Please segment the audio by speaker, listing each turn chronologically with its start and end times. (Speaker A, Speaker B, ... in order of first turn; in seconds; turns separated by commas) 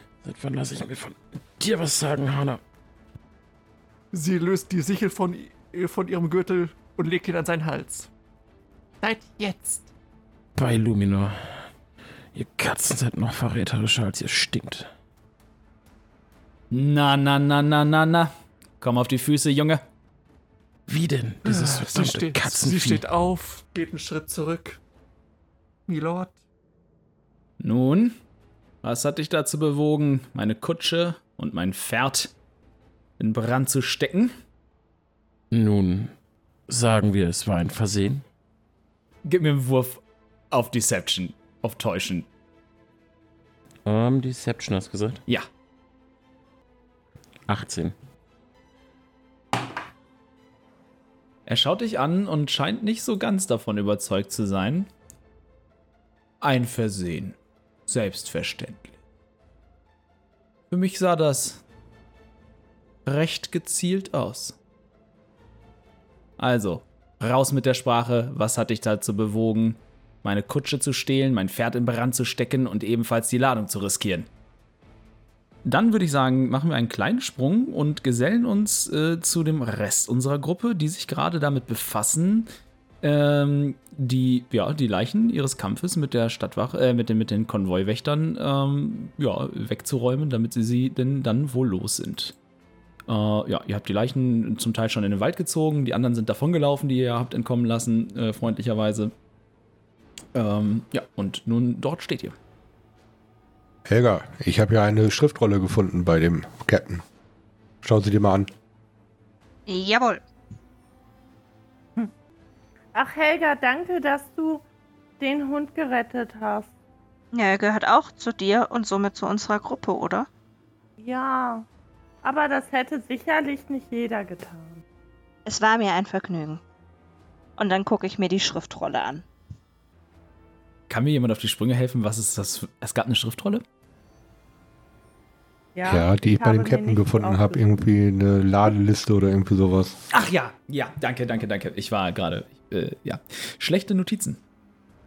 Speaker A: 0.2-2.6, Speaker B: 4.1-8.1, Speaker B: 9.0-9.9, Speaker A: 10.6-11.7, Speaker A: 12.3-14.9, Speaker C: 16.7-19.8, Speaker A: 20.9-23.0, Speaker B: 21.4-24.8, Speaker B: 25.9-26.4, Speaker C: 27.6-28.2, Speaker C: 28.8-32.3, Speaker C: 33.2-34.4, Speaker A: 35.5-36.1, Speaker A: 36.7-38.2, Speaker C: 39.2-42.3, Speaker A: 43.8-45.2, Speaker A: 47.5-47.9, Speaker C: 51.5-54.9, Speaker C: 56.4-59.0, Speaker C: 60.7-61.6, Speaker C: 63.0-64.6, Speaker C: 66.4-74.3, Speaker C: 75.6-82.5, Speaker C: 83.0-92.3, Speaker C: 93.1-99.1, Speaker C: 100.3-102.3, Speaker D: 103.8-107.0, Speaker D: 107.8-108.5, Speaker E: 109.7-110.2, Speaker F: 112.9-114.6, Speaker F: 115.2-116.7, Speaker E: 117.3-120.3, Speaker F: 121.0-121.7, Speaker F: 122.2-124.8, Speaker E: 125.5-126.6, Speaker E: 127.6-129.2, Speaker C: 130.9-133.6, Speaker F: 135.7-137.7, Speaker D: 135.8-140.0, Speaker C: 140.1-144.4